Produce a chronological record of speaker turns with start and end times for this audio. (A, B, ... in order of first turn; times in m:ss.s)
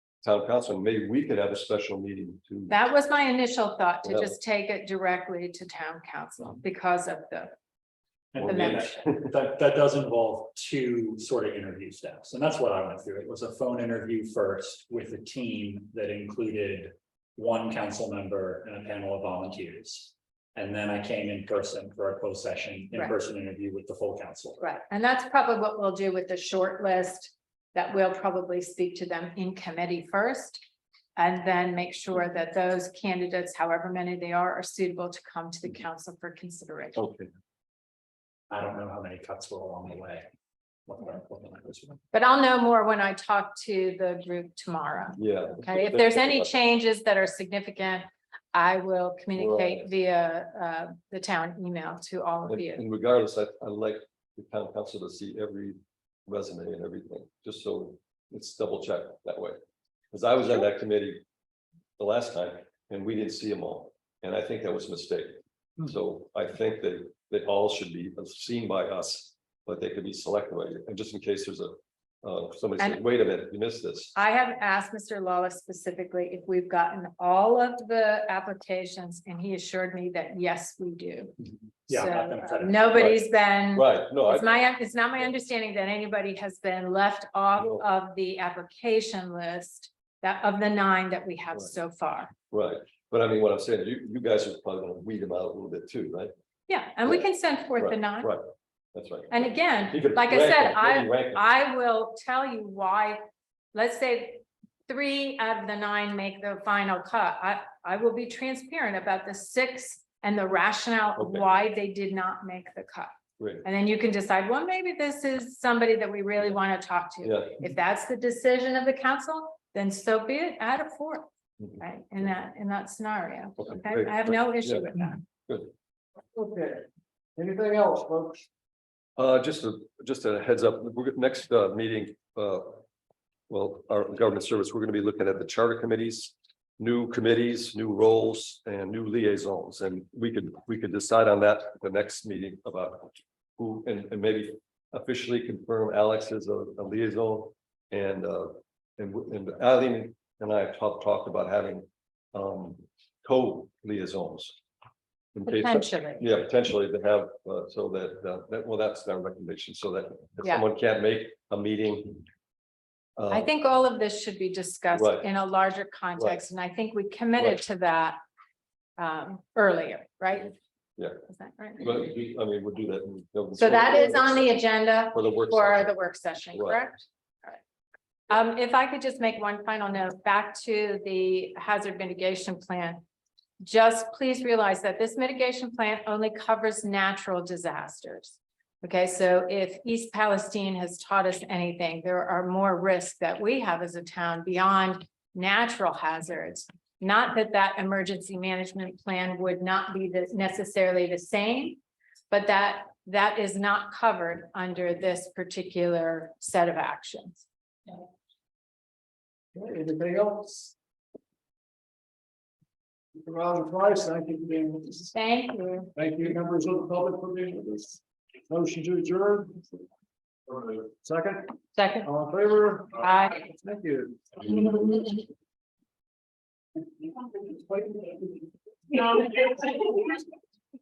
0:00.2-0:02.8 A
0:02.7-0:07.5 B
0:04.0-0:04.4 A
0:08.3-0:24.6 C
0:08.4-0:09.2 A
0:08.4-0:09.0 B
0:24.6-0:30.6 B
0:31.2-0:37.0 B
0:37.0-0:37.3 A
0:38.5-0:40.3 C
0:40.8-0:42.0 C
0:42.1-0:52.8 B
0:45.2-0:46.5 A
0:49.4-0:49.9 A
0:52.5-0:59.6 A
1:00.1-1:01.2 A
1:02.0-1:14.1 A
1:14.1-1:21.3 B
1:21.9-1:23.1 C
1:21.9-1:32.3 B
1:22.9-1:24.5 A
1:27.6-1:27.8 A
1:32.5-1:36.3 A
1:36.7-1:38.3 B
1:37.8-1:41.4 A
1:39.3-1:43.2 B
1:43.7-1:53.1 B
1:51.2-1:51.4 A
1:53.4-1:53.6 A
1:53.6-2:01.2 B
1:57.2-1:57.5 A
2:01.8-2:05.2 B
2:03.6-2:04.9 A
2:06.3-2:08.4 D
2:09.2-2:12.8 A
2:13.5-2:34.6 A
2:35.3-2:42.2 A
2:35.4-2:36.3 B
2:43.2-2:43.5 A
2:43.3-2:48.2 B
2:44.9-2:45.3 A
2:46.2-2:46.4 A
2:49.0-2:50.6 B
2:51.2-2:51.8 B
2:51.8-2:55.9 A
2:53.6-2:57.6 B
2:56.5-2:56.8 A
2:58.3-3:03.0 B
3:03.6-3:21.8 B
3:22.3-3:27.4 B
3:29.5-3:30.7 D
3:33.1-3:35.1 D
3:35.1-3:35.9 B
3:35.9-3:39.7 D
3:40.5-3:44.8 D
3:41.8-3:42.0 B
3:43.0-3:43.4 B
3:44.7-3:45.2 B
3:47.3-3:49.3 D